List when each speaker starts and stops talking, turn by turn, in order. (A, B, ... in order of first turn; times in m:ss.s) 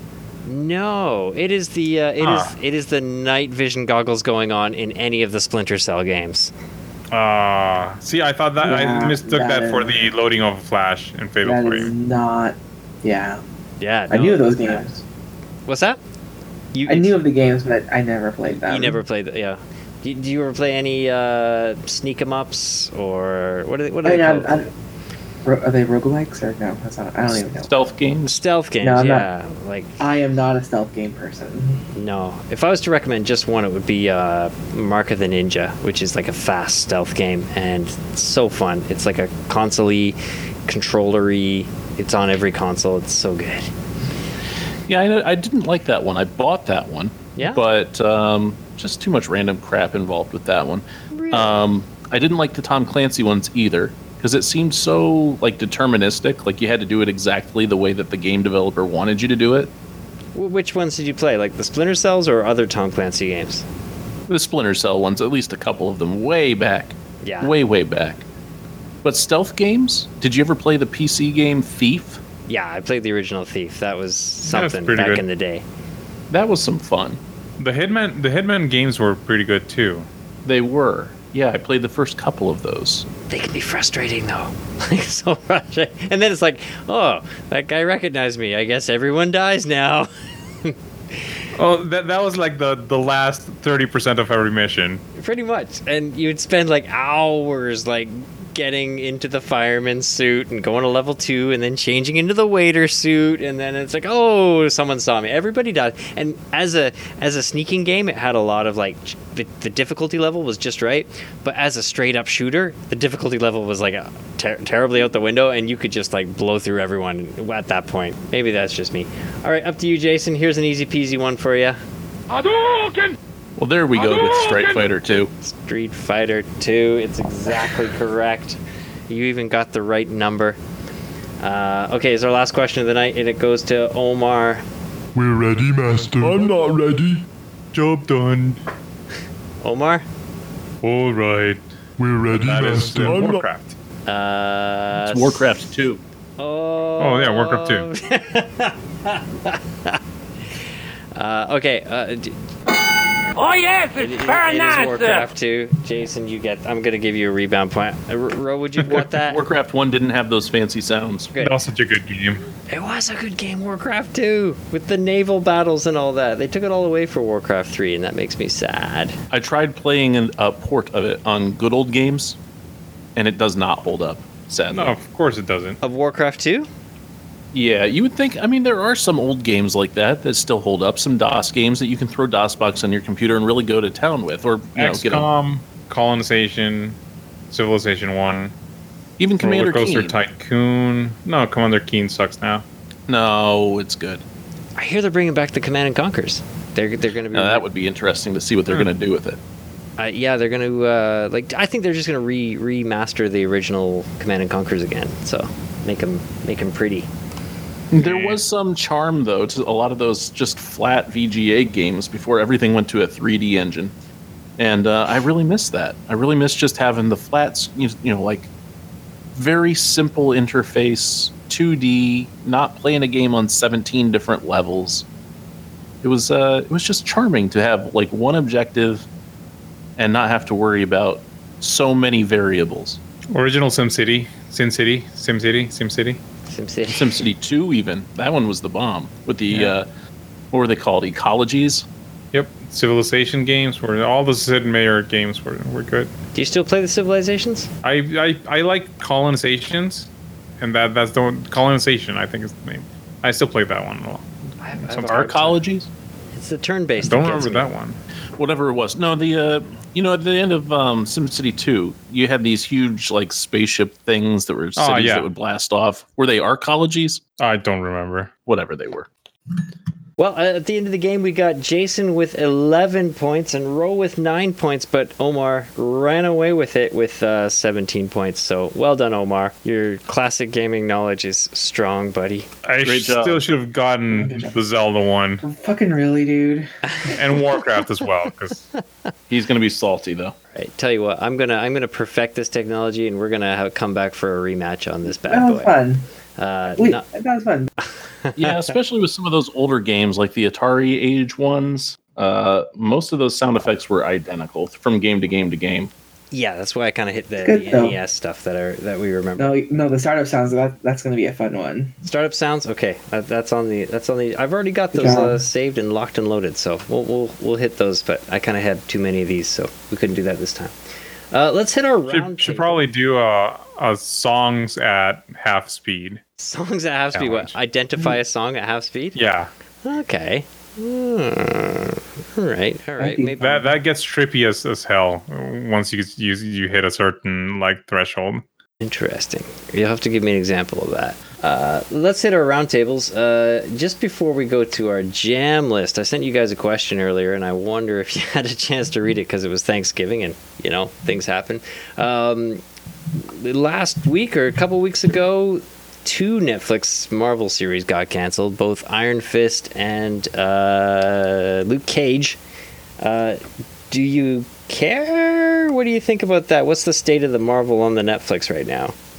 0:00.4-0:06.5 A
0:02.2-0:02.5 B
0:07.1-0:11.9 B
0:08.6-0:10.0 C
0:11.4-0:13.4 C
0:13.8-0:15.0 A
0:14.1-0:15.0 C
0:15.7-0:16.0 A
0:16.7-0:17.2 A
0:16.9-0:19.0 C
0:18.7-0:24.6 A
0:24.0-0:24.7 C
0:25.4-0:27.7 C
0:27.5-0:28.4 D
0:28.3-0:30.0 A
0:28.8-0:29.3 C
0:30.0-0:31.8 C
0:31.9-0:43.7 A
0:44.9-0:59.7 D
0:47.4-0:47.6 A
0:51.1-0:51.6 A
1:00.3-1:03.6 A
1:04.3-1:08.2 D
1:07.2-1:07.5 A
1:09.0-1:12.2 D
1:12.5-1:15.6 A
1:14.4-1:15.2 B
1:16.3-1:17.2 D
1:17.6-1:20.1 B
1:20.4-1:23.0 D
1:23.3-1:30.1 A
1:31.6-1:35.0 B
1:35.2-2:01.8 A
2:02.3-2:03.1 E
2:03.6-2:05.3 D
2:05.4-2:10.6 A
2:11.4-2:14.6 A
2:15.1-2:17.2 F
2:16.2-2:16.5 B
2:17.7-2:18.6 B
2:19.6-2:20.0 A
2:20.8-2:21.6 B
2:22.0-2:23.5 F
2:22.3-2:23.7 B
2:24.0-2:25.5 A
2:25.0-2:26.0 D
2:26.4-2:30.0 A
2:27.0-2:27.8 B
2:31.1-2:32.4 A
2:33.3-2:35.3 E
2:34.0-2:39.4 A
2:38.9-2:41.3 D
2:41.4-2:42.4 B
2:42.7-2:49.2 A
2:49.3-2:52.4 D
2:53.2-2:55.0 D
2:54.7-2:55.8 B
2:55.8-2:56.7 A
2:57.5-3:05.3 D
3:04.8-3:07.0 B
3:07.5-3:08.5 B
3:09.2-3:10.2 D
3:09.4-3:12.6 B
3:13.1-3:14.2 D
3:14.8-3:17.6 A
3:17.3-3:19.4 D
3:20.0-3:27.1 A
3:27.9-3:33.9 D
3:27.9-3:28.4 B
3:34.6-3:38.5 D
3:39.3-3:45.0 D
3:46.0-3:49.0 D
3:50.0-3:53.0 D
3:53.3-3:56.2 B
3:56.5-3:57.2 A
3:56.9-3:59.9 D
4:00.5-4:01.8 D
4:02.3-4:06.1 B
4:06.3-4:07.7 A
4:07.8-4:10.1 B
4:10.6-4:14.3 B
4:14.6-4:15.6 A
4:14.8-4:15.4 B
4:15.0-4:15.9 D
4:16.3-4:17.7 A
4:17.0-4:18.0 B
4:18.4-4:27.2 D
4:24.8-4:25.3 B
4:27.4-4:28.3 B
4:28.5-4:29.1 D
4:30.2-4:42.5 A
4:42.6-4:45.4 B
4:42.8-4:43.4 D
4:44.1-4:44.6 C
4:45.4-4:46.7 C
4:46.9-4:47.1 A
4:47.1-4:48.7 B
4:49.3-4:50.3 D
4:50.5-4:55.8 A
4:55.2-4:56.0 C
4:56.4-4:57.0 A
4:56.8-4:57.7 C
4:58.2-4:58.7 A
4:58.4-5:05.9 D
5:06.3-5:09.6 A
5:07.4-5:08.0 C
5:09.4-5:12.0 C
5:12.0-5:20.7 A
5:14.9-5:15.4 C
5:21.3-5:22.8 A
5:22.1-5:26.2 B
5:26.4-5:29.2 A
5:27.1-5:27.5 B
5:29.1-5:29.5 B
5:29.8-5:33.6 A
5:33.0-5:33.7 C
5:33.4-5:38.4 B
5:38.8-5:52.6 A
5:53.1-6:02.4 A
6:03.0-6:08.9 A